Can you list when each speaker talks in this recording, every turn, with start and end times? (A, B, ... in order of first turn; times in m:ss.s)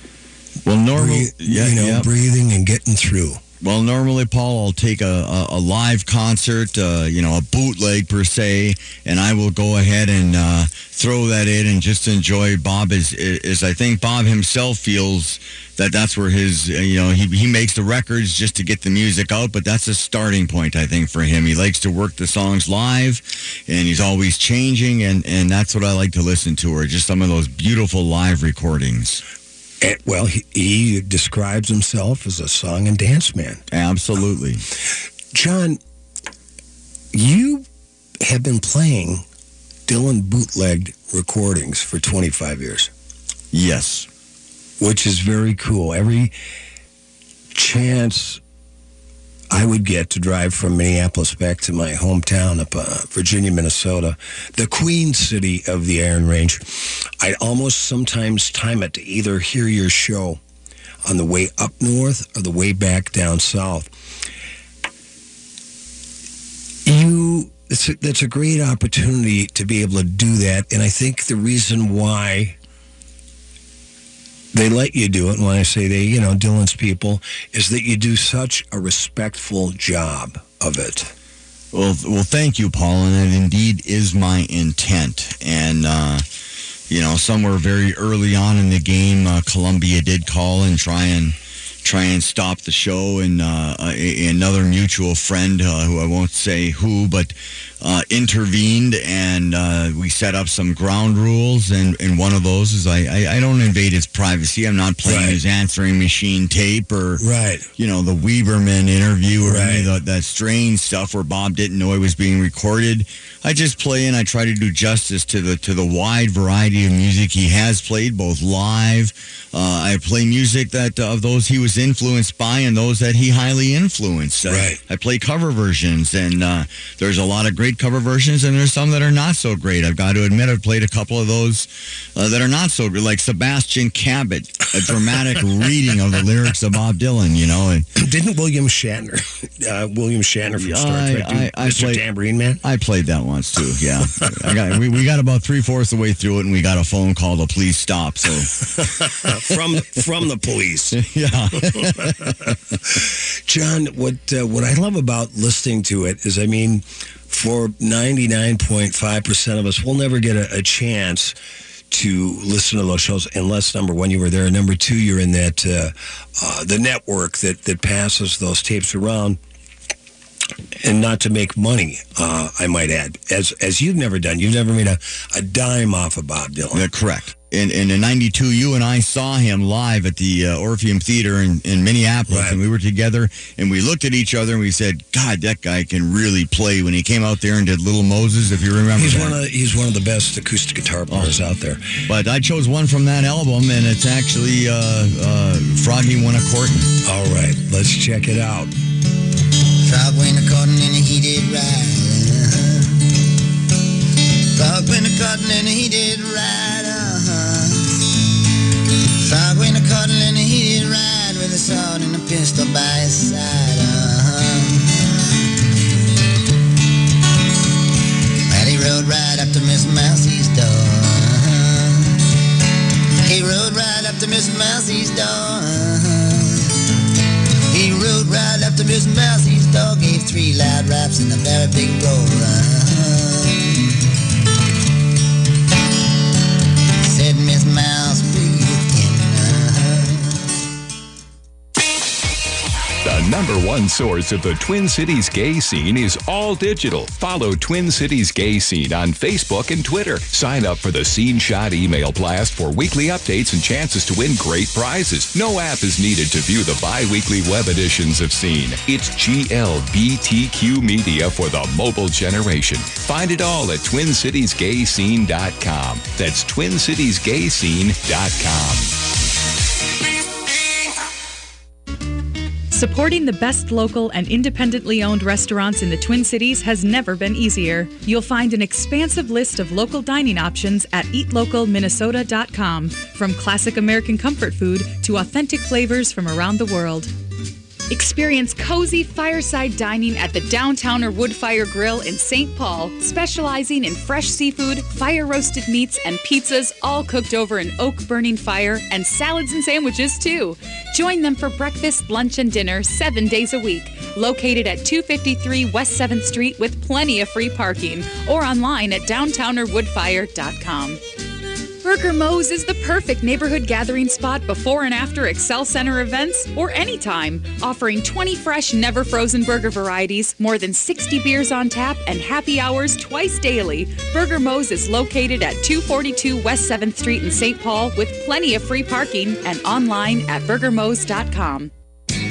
0:00.6-0:02.1 A
0:01.0-0:03.4 B
0:03.6-0:29.2 A
0:29.8-0:33.6 B
0:33.7-0:34.6 A
0:35.3-0:35.8 B
0:37.1-0:37.7 B
0:38.2-0:39.2 B
0:39.9-0:42.9 B
0:43.5-0:44.1 A
0:44.8-0:46.3 B
0:47.5-0:48.4 B
0:49.5-1:00.4 B
1:01.0-1:03.9 B
1:06.9-1:12.6 B
1:14.5-1:21.1 B
1:21.7-1:26.2 A
1:26.9-1:47.2 A
1:45.0-1:45.4 B
1:47.2-1:47.7 B
1:47.8-2:17.9 A
1:49.4-1:49.9 B
2:04.4-2:04.8 B
2:18.0-2:22.6 B
2:20.6-2:22.0 A
2:22.6-2:29.3 A
2:28.7-2:31.0 B
2:30.9-2:32.5 A
2:31.6-2:41.4 B
2:41.9-2:49.4 B
2:50.8-2:56.8 B
2:56.7-3:09.4 A
3:02.3-3:02.6 B
3:09.0-3:11.8 B
3:11.1-3:11.4 A
3:12.0-3:16.9 A
3:17.0-3:18.7 B
3:19.8-3:23.1 C
3:24.6-3:28.0 C
3:29.2-3:35.4 C
3:38.5-3:42.2 C
3:43.2-3:46.6 C
3:47.7-3:53.9 C
3:57.0-4:00.4 C
4:03.0-4:28.9 D
4:32.7-4:47.1 E
4:47.9-5:11.0 E
5:11.8-5:31.7 E